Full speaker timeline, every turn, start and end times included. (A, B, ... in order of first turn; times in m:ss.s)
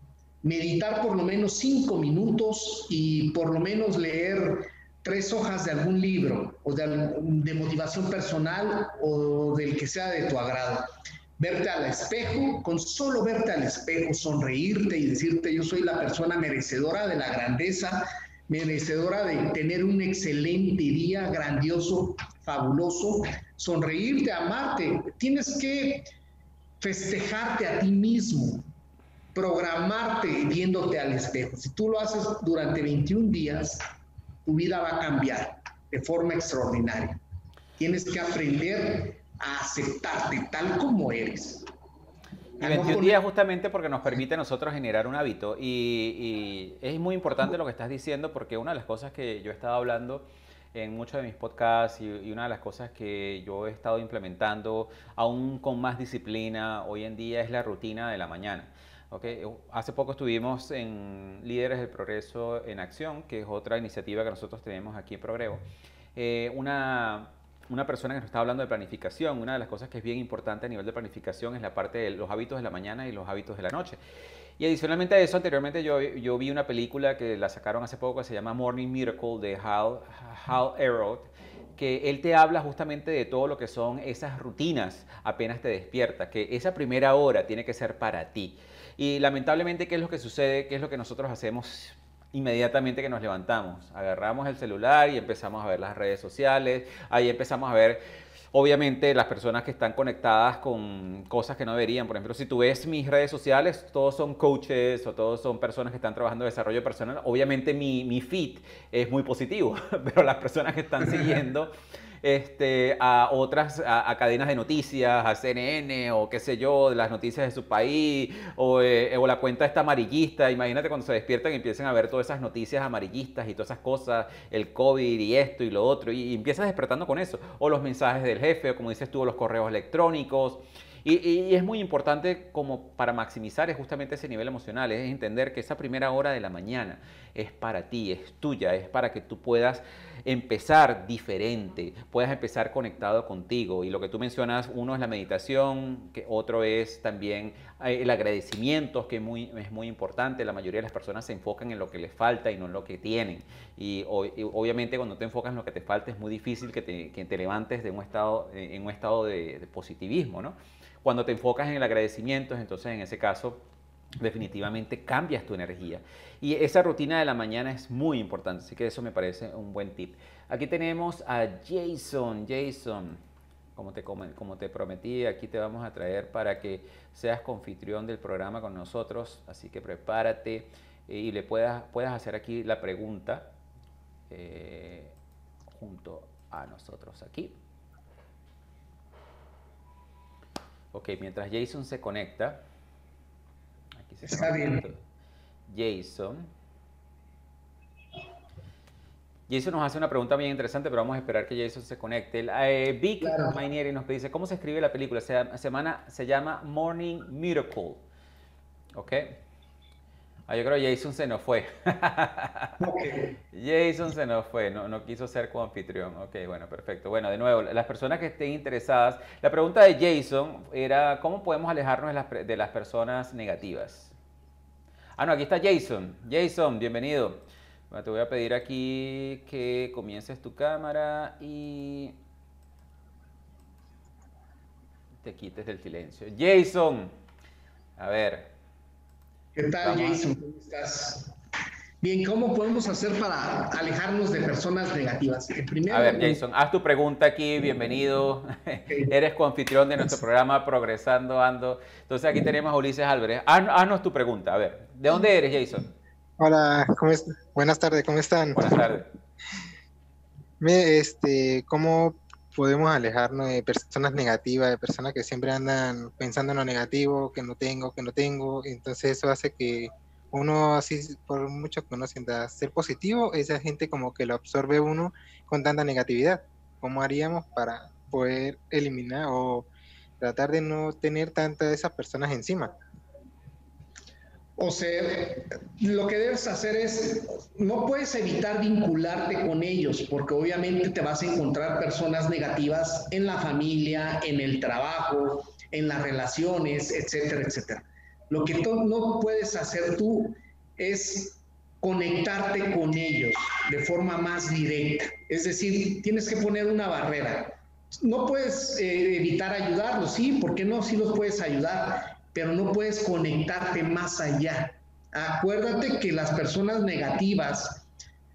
0:00.4-0:10.9 A
0:11.4-0:26.1 A
0:26.8-0:28.6 A
0:29.3-0:33.8 A
0:34.4-0:37.2 A
0:37.8-0:41.6 A
0:42.6-0:43.2 A
0:42.6-1:05.6 B
1:06.2-1:14.0 B
1:14.6-1:38.0 B
1:38.5-1:51.7 B
1:52.2-2:43.6 B
2:44.2-2:53.2 B
2:53.8-3:03.5 B
3:04.3-3:05.1 B
3:05.7-3:07.5 B
3:10.9-3:12.6 B
3:14.0-3:15.0 B
3:14.2-3:14.9 A
3:15.7-3:16.5 B
3:19.5-3:28.0 B
3:23.2-3:23.6 A
3:28.9-3:29.4 B
3:30.5-3:32.8 B
3:32.8-3:33.4 A
3:33.5-3:44.1 B
3:45.2-3:52.2 B
3:55.2-3:57.1 B
3:58.0-3:58.5 B
3:59.5-4:01.3 A
3:59.8-4:00.2 B
4:02.0-4:06.4 A
4:05.9-4:15.9 B
4:08.9-4:09.1 A
4:16.4-4:18.9 C
4:18.5-4:19.1 B
4:20.6-4:39.7 C
4:40.2-4:42.7 C
4:44.6-5:17.9 A